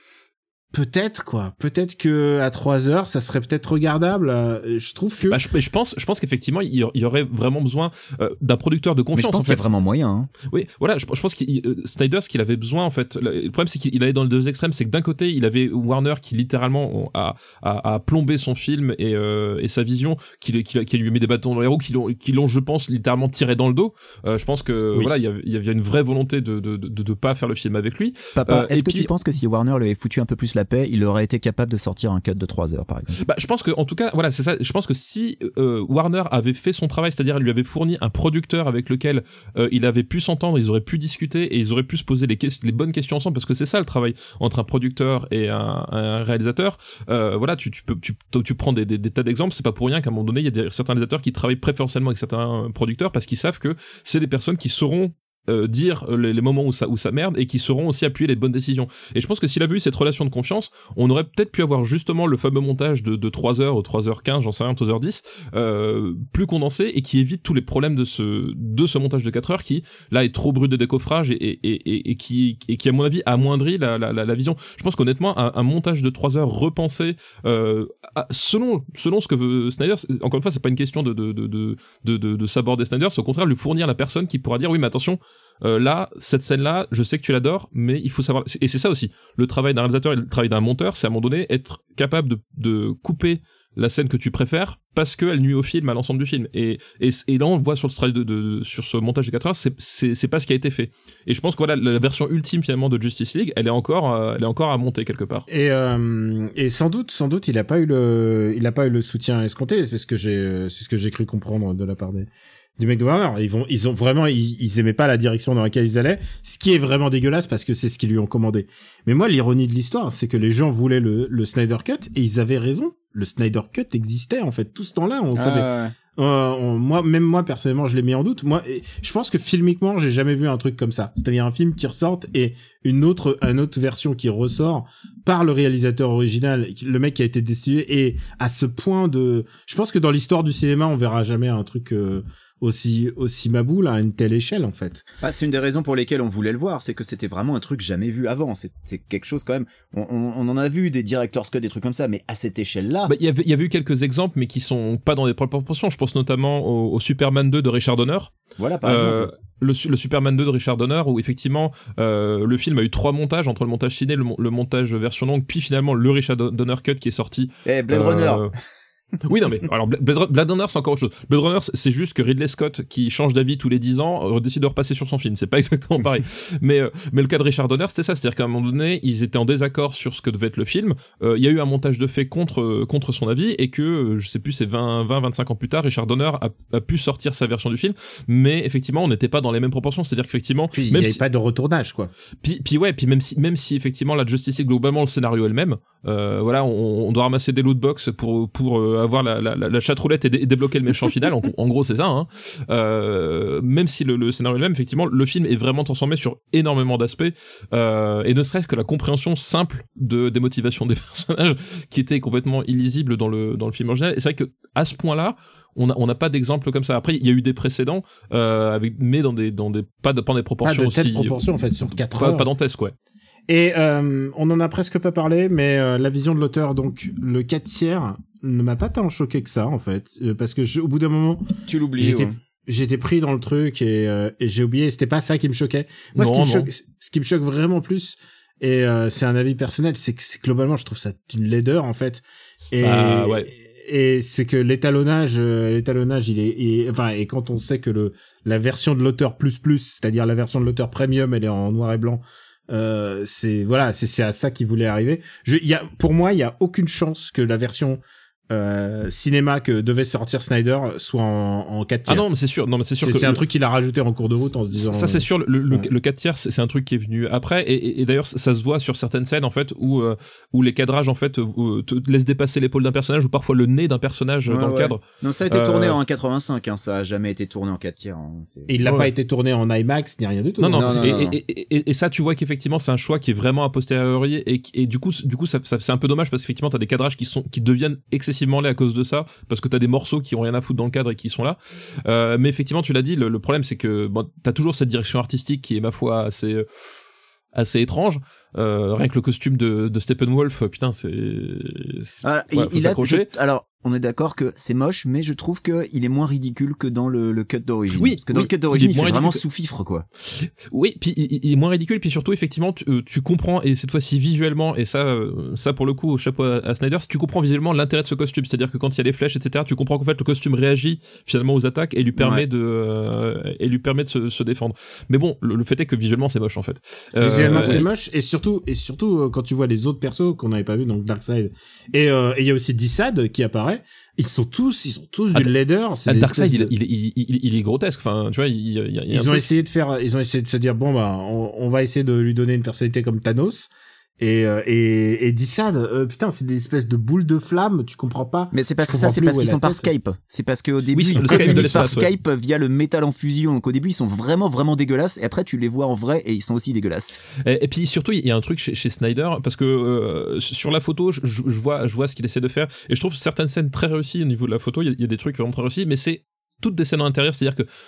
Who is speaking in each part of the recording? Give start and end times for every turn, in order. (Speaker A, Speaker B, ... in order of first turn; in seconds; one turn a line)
Speaker A: 0.7-5.4
Speaker B: 5.3-9.7
Speaker C: 9.1-10.3
Speaker B: 10.5-29.1
Speaker C: 28.3-33.2
Speaker B: 33.2-105.4
Speaker A: 105.5-145.1
Speaker C: 125.3-125.9
Speaker C: 145.2-153.1
Speaker B: 153.1-168.5
Speaker C: 158.6-159.3
Speaker C: 167.6-168.5
Speaker B: 169.2-191.2
Speaker A: 190.7-192.1
Speaker B: 192.4-221.4
Speaker A: 220.6-222.5
Speaker B: 222.1-222.9
Speaker A: 223.5-231.4
Speaker C: 231.7-232.3
Speaker A: 232.0-262.2
Speaker B: 236.2-236.7
Speaker B: 242.8-243.5
Speaker B: 262.1-263.4
Speaker A: 263.0-265.9
Speaker B: 264.7-276.0
Speaker C: 274.5-278.7
Speaker A: 278.7-281.0
Speaker B: 278.8-279.1
Speaker B: 280.6-297.0
Speaker C: 280.7-281.4
Speaker B: 297.5-303.3
Speaker C: 302.2-310.1
Speaker B: 307.9-309.4
Speaker B: 310.3-327.9
Speaker C: 322.1-322.4
Speaker A: 327.2-336.7
Speaker C: 327.5-327.8
Speaker B: 336.1-339.4
Speaker A: 339.1-349.9
Speaker C: 348.5-357.2
Speaker B: 350.9-352.1
Speaker B: 357.4-367.6